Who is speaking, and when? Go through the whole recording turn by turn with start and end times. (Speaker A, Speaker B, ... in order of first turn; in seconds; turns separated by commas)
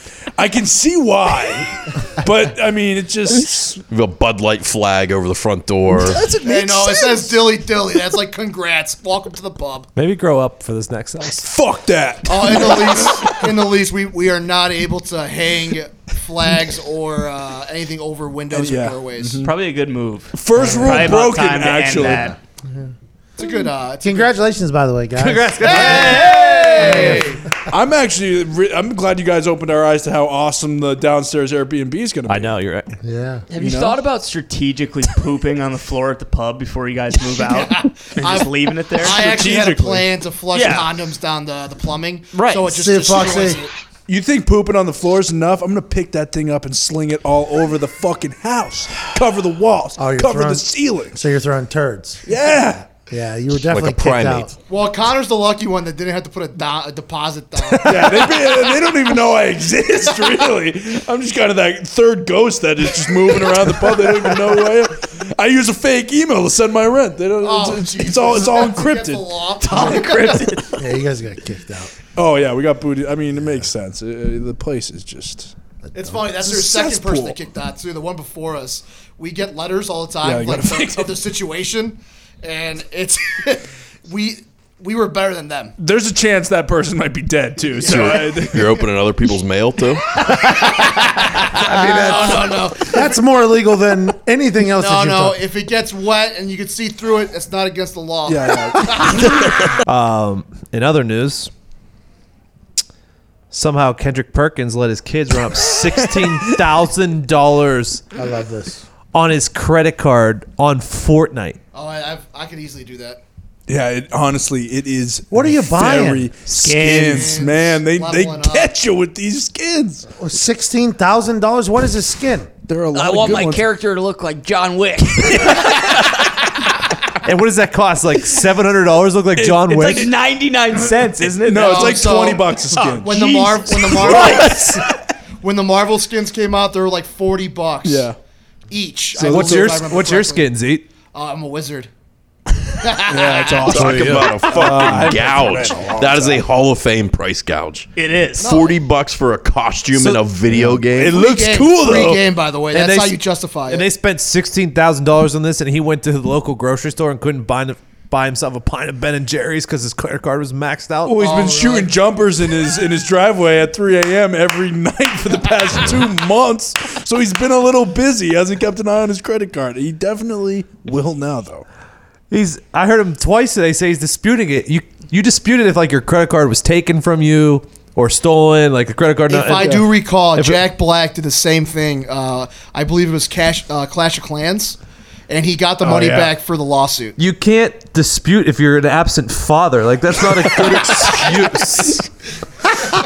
Speaker A: 0.4-3.8, Speaker B: 3.9-6.2, Speaker A: 5.9-7.5, Speaker C: 6.3-9.9, Speaker D: 9.9-11.5, Speaker A: 11.4-13.3, Speaker C: 12.2-19.4, Speaker A: 18.5-19.5, Speaker E: 19.4-22.4, Speaker A: 20.3-22.3, Speaker F: 20.6-21.0, Speaker C: 23.4-24.4, Speaker F: 24.0-26.2, Speaker D: 25.1-27.3, Speaker C: 25.6-27.4, Speaker A: 27.7-32.5, Speaker D: 32.3-32.9, Speaker F: 33.0-33.5, Speaker E: 33.5-39.4, Speaker A: 33.6-34.0, Speaker C: 37.3-43.7, Speaker A: 39.1-40.1, Speaker E: 40.5-40.9, Speaker F: 42.6-43.6, Speaker A: 44.1-51.2, Speaker F: 50.0-52.2, Speaker A: 52.2-52.9, Speaker F: 53.1-54.5, Speaker B: 53.7-54.5, Speaker C: 54.7-58.9, Speaker A: 57.7-69.5, Speaker C: 60.0-60.6, Speaker C: 63.2-63.5, Speaker C: 67.4-70.7, Speaker E: 69.8-70.6, Speaker F: 70.8-71.9, Speaker A: 72.2-75.5, Speaker F: 75.8-76.2, Speaker C: 75.9-85.7, Speaker A: 76.4-77.4, Speaker A: 80.2-81.2, Speaker A: 85.8-88.6, Speaker C: 87.7-88.8, Speaker B: 87.8-90.1, Speaker C: 90.2-93.2, Speaker F: 91.5-95.4, Speaker C: 94.6-99.5, Speaker A: 98.2-99.3, Speaker D: 99.8-101.5, Speaker D: 103.5-108.0, Speaker A: 106.1-106.5, Speaker F: 108.1-108.8, Speaker D: 109.1-111.6, Speaker C: 111.7-113.2, Speaker A: 113.7-120.0, Speaker F: 115.3-116.3, Speaker E: 116.4-117.3, Speaker C: 117.0-118.7, Speaker F: 120.2-122.5, Speaker A: 122.7-123.7, Speaker E: 122.9-126.3, Speaker D: 127.2-130.1, Speaker A: 129.3-130.2, Speaker E: 129.7-134.6, Speaker A: 131.2-133.2, Speaker C: 131.6-134.8, Speaker A: 134.0-134.4, Speaker C: 135.4-138.1, Speaker A: 137.8-138.2, Speaker C: 138.7-140.5, Speaker A: 139.1-139.8, Speaker D: 139.2-140.8, Speaker C: 141.1-141.9, Speaker C: 142.8-144.0, Speaker A: 143.1-146.4, Speaker B: 143.7-151.2, Speaker D: 143.7-144.4, Speaker E: 147.9-148.6, Speaker C: 148.4-148.7, Speaker D: 150.0-150.2, Speaker A: 150.5-152.2, Speaker C: 151.1-153.9, Speaker D: 152.7-161.3, Speaker A: 161.1-171.6, Speaker C: 161.2-161.9, Speaker D: 172.3-180.6, Speaker C: 179.3-184.8, Speaker A: 179.6-179.8, Speaker C: 185.3-187.2, Speaker A: 185.8-186.3, Speaker D: 187.2-192.1